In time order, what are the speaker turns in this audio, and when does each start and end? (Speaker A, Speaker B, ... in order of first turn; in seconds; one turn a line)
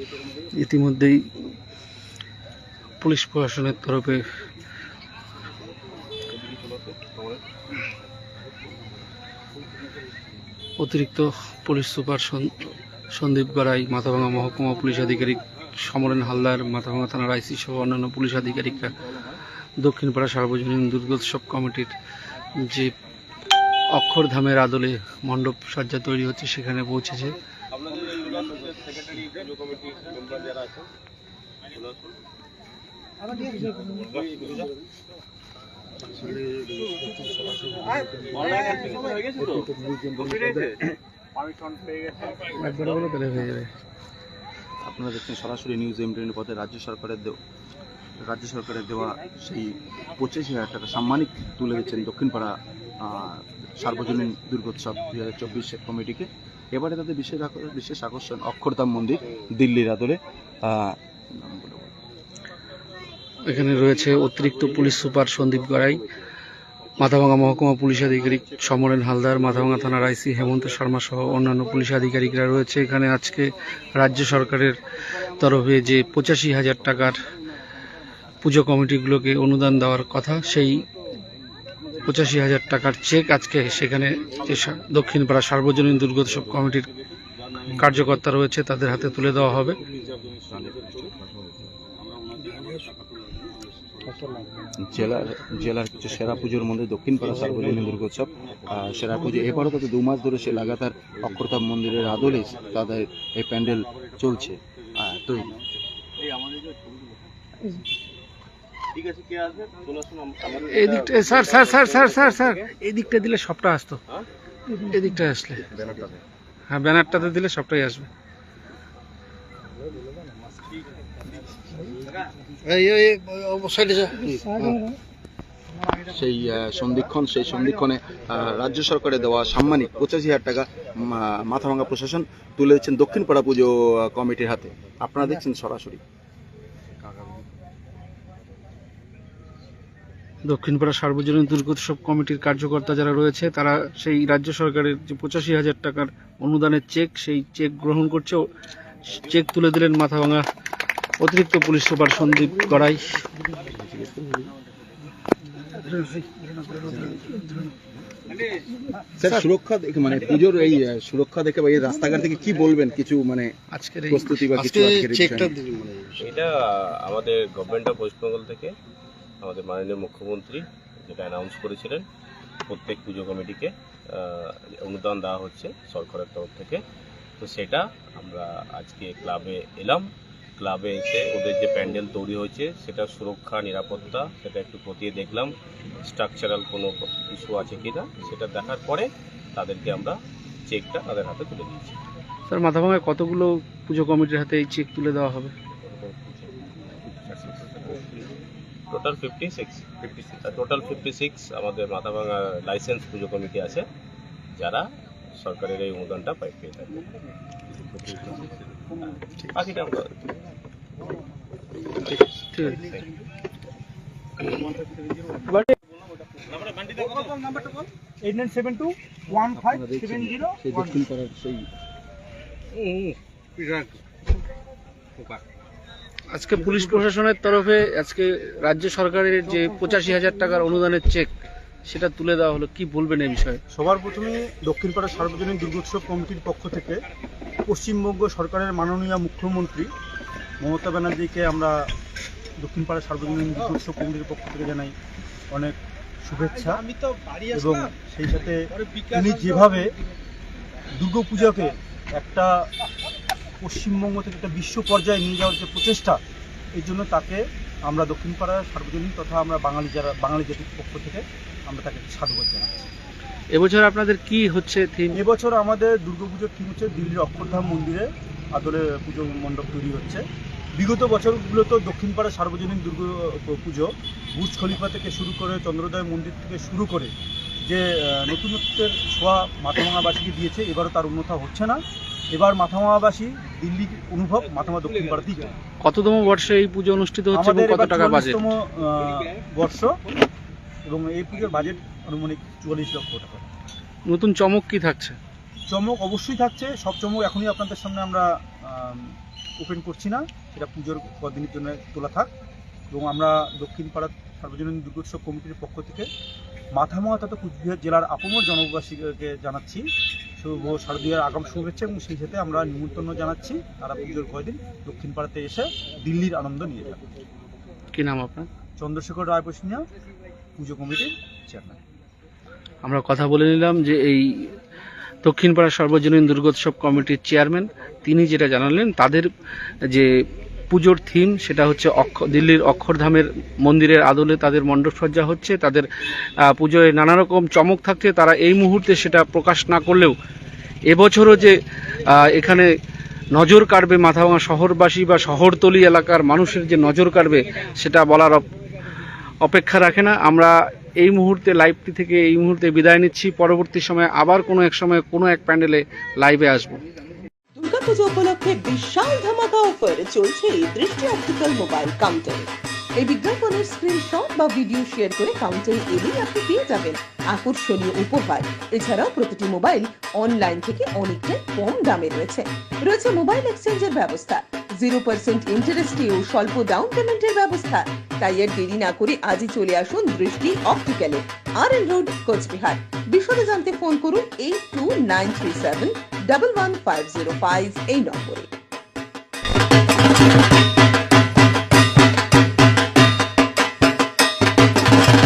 Speaker A: 0.5-1.3
Speaker A: 3.0-4.2
Speaker B: 6.3-7.4
Speaker A: 10.8-19.0
Speaker A: 19.8-21.9
Speaker A: 22.6-22.9
Speaker A: 23.9-27.4
Speaker B: 27.7-30.9
Speaker B: 34.1-34.6
Speaker C: 36.2-38.6
Speaker B: 38.4-39.1
Speaker C: 39.4-40.8
Speaker A: 42.5-43.7
Speaker C: 44.8-47.4
Speaker C: 48.2-61.9
Speaker A: 63.5-66.0
Speaker A: 67.0-74.8
Speaker A: 75.3-77.2
Speaker A: 78.4-80.8
Speaker A: 82.0-86.9
Speaker A: 87.8-89.8
Speaker C: 90.5-91.2
Speaker C: 94.8-105.6
Speaker B: 106.5-106.8
Speaker B: 108.9-112.5
Speaker A: 110.7-114.0
Speaker A: 114.7-115.6
Speaker A: 116.7-118.1
Speaker A: 122.7-124.7
Speaker C: 125.9-136.0
Speaker A: 140.5-148.4
Speaker A: 149.1-150.5
Speaker A: 151.2-153.2
Speaker C: 153.7-154.5
Speaker C: 156.9-157.4
Speaker C: 159.2-163.5
Speaker A: 163.7-165.8
Speaker C: 164.1-165.7
Speaker B: 166.2-168.7
Speaker B: 169.4-172.1
Speaker B: 172.7-176.8
Speaker B: 177.4-192.0
Speaker A: 192.5-195.5
Speaker C: 197.1-197.9
Speaker B: 198.9-203.9
Speaker C: 200.1-200.4
Speaker B: 204.6-207.0
Speaker B: 208.1-210.1
Speaker A: 212.0-212.8
Speaker D: 212.7-213.1
Speaker B: 212.7-213.1
Speaker D: 214.5-215.0
Speaker A: 215.4-215.8
Speaker D: 216.9-220.9
Speaker C: 219.5-221.7
Speaker A: 226.3-231.3
Speaker D: 226.6-227.0
Speaker A: 231.9-233.6
Speaker D: 233.7-237.0
Speaker D: 237.7-239.9
Speaker D: 240.6-241.9
Speaker D: 242.6-244.9
Speaker D: 245.5-246.9
Speaker D: 247.5-249.9
Speaker D: 251.0-252.7
Speaker D: 253.6-256.2
Speaker D: 256.8-262.9
Speaker A: 263.5-265.2
Speaker D: 265.1-270.2
Speaker D: 270.8-277.1
Speaker D: 277.6-281.8
Speaker D: 282.3-285.5
Speaker A: 285.8-288.5
Speaker D: 287.3-289.9
Speaker D: 290.9-293.5
Speaker A: 294.1-295.2
Speaker D: 295.7-302.3
Speaker D: 302.9-306.1
Speaker D: 306.8-309.9
Speaker D: 310.4-317.0
Speaker A: 317.9-318.5
Speaker D: 318.8-319.8
Speaker D: 320.6-321.8
Speaker A: 322.8-324.6
Speaker A: 325.2-329.3
Speaker A: 329.9-330.1
Speaker A: 330.7-340.1
Speaker A: 340.9-342.7
Speaker A: 343.3-348.4
Speaker A: 349.4-356.8
Speaker E: 357.6-388.5